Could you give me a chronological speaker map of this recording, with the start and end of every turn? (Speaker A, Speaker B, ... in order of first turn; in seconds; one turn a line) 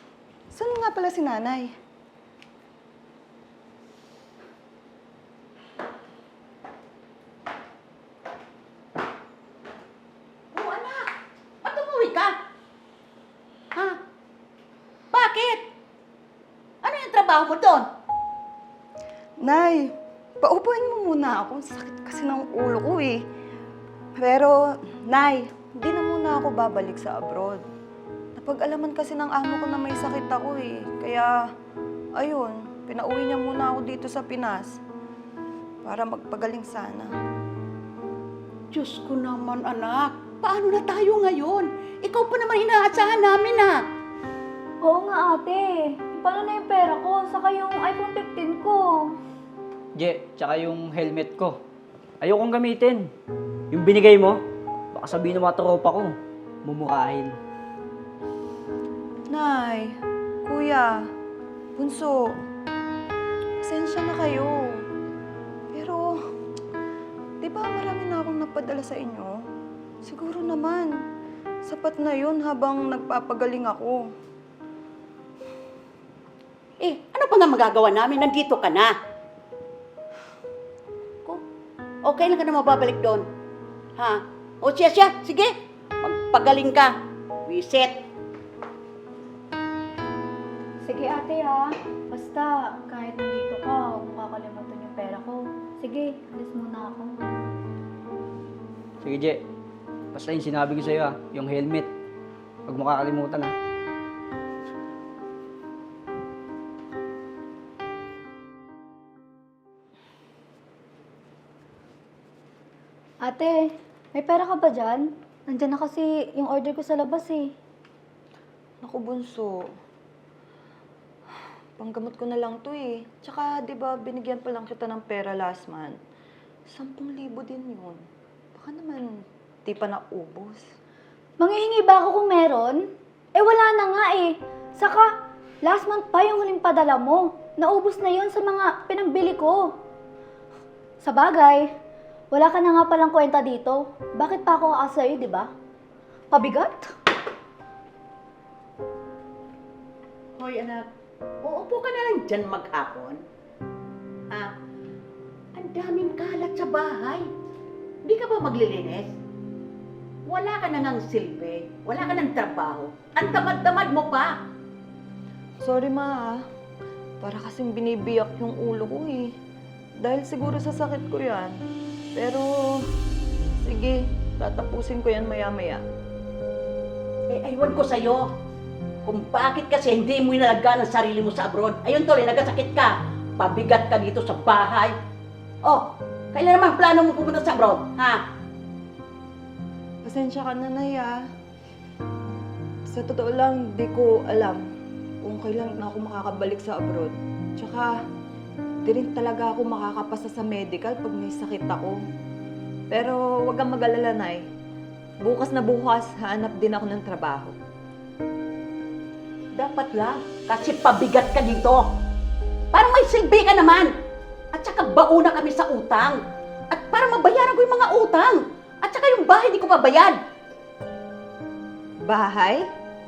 Speaker A: 0.5-1.7
Speaker B: 10.5-11.1
Speaker B: 11.6-12.3
Speaker B: 15.1-15.6
Speaker B: 16.8-17.8
Speaker A: 19.4-23.2
Speaker A: 24.2-27.6
Speaker A: 28.4-31.3
Speaker A: 32.1-34.8
Speaker A: 35.8-37.1
Speaker B: 38.7-43.8
Speaker C: 44.8-49.1
Speaker D: 49.9-51.6
Speaker D: 52.2-53.1
Speaker D: 53.7-54.4
Speaker D: 54.9-57.3
Speaker A: 59.3-61.0
Speaker A: 61.8-62.3
Speaker A: 63.6-64.8
Speaker A: 65.7-66.2
Speaker A: 67.4-69.3
Speaker A: 70.0-71.0
Speaker A: 71.6-74.1
Speaker B: 76.8-78.9
Speaker B: 82.0-83.2
Speaker B: 84.0-86.9
Speaker B: 87.5-88.0
Speaker C: 90.8-97.3
Speaker D: 99.0-99.4
Speaker D: 100.1-101.9
Speaker D: 102.7-103.5
Speaker C: 113.2-117.5
Speaker A: 118.8-119.7
Speaker A: 121.8-126.0
Speaker A: 126.7-128.0
Speaker A: 128.5-130.6
Speaker C: 131.4-135.1
Speaker C: 135.6-139.7
Speaker C: 141.0-141.7
Speaker C: 142.3-145.5
Speaker C: 146.3-146.9
Speaker B: 150.4-150.9
Speaker B: 151.4-153.2
Speaker B: 155.5-157.2
Speaker B: 158.1-159.1
Speaker B: 160.3-164.4
Speaker A: 165.6-166.4
Speaker A: 167.2-169.3
Speaker A: 170.0-171.6
Speaker A: 172.1-172.9
Speaker A: 173.6-175.8
Speaker B: 177.3-178.2
Speaker B: 179.0-184.9
Speaker B: 185.6-188.2
Speaker A: 190.0-191.2
Speaker A: 192.9-194.6
Speaker A: 195.2-197.9
Speaker A: 198.8-202.0
Speaker A: 202.9-204.4
Speaker A: 205.2-207.6
Speaker B: 209.5-211.8
Speaker B: 212.7-213.9
Speaker B: 214.5-216.2
Speaker B: 216.7-220.2
Speaker A: 222.1-222.7